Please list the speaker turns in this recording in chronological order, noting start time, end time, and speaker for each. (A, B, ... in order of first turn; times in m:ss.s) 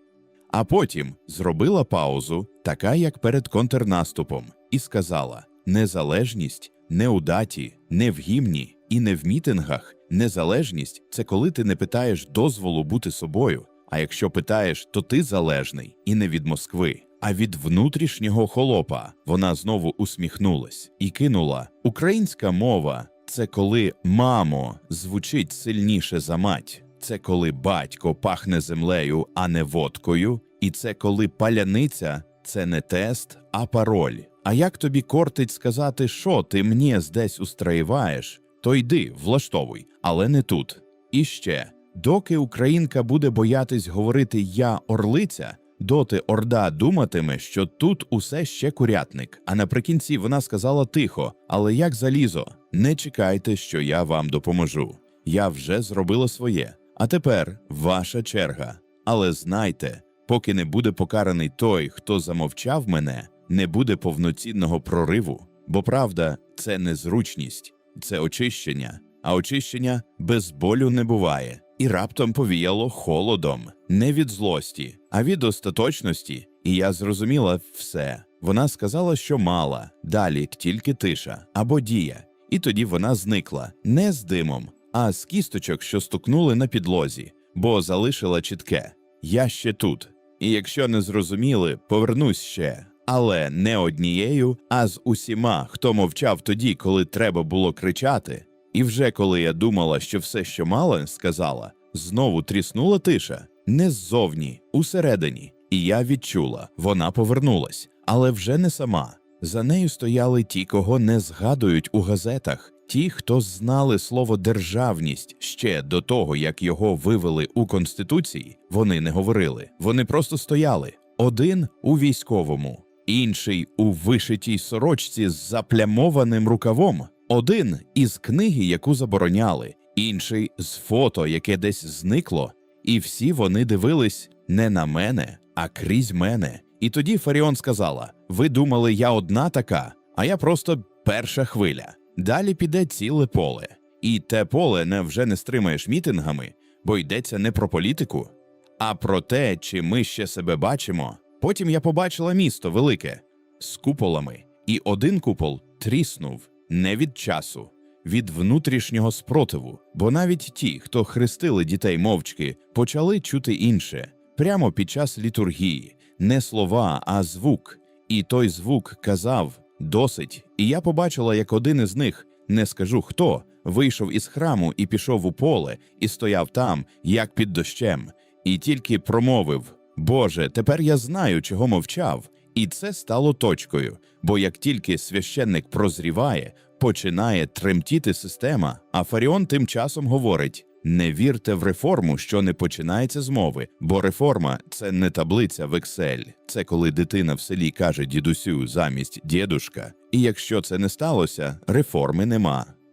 0:00.5-3:22.7 A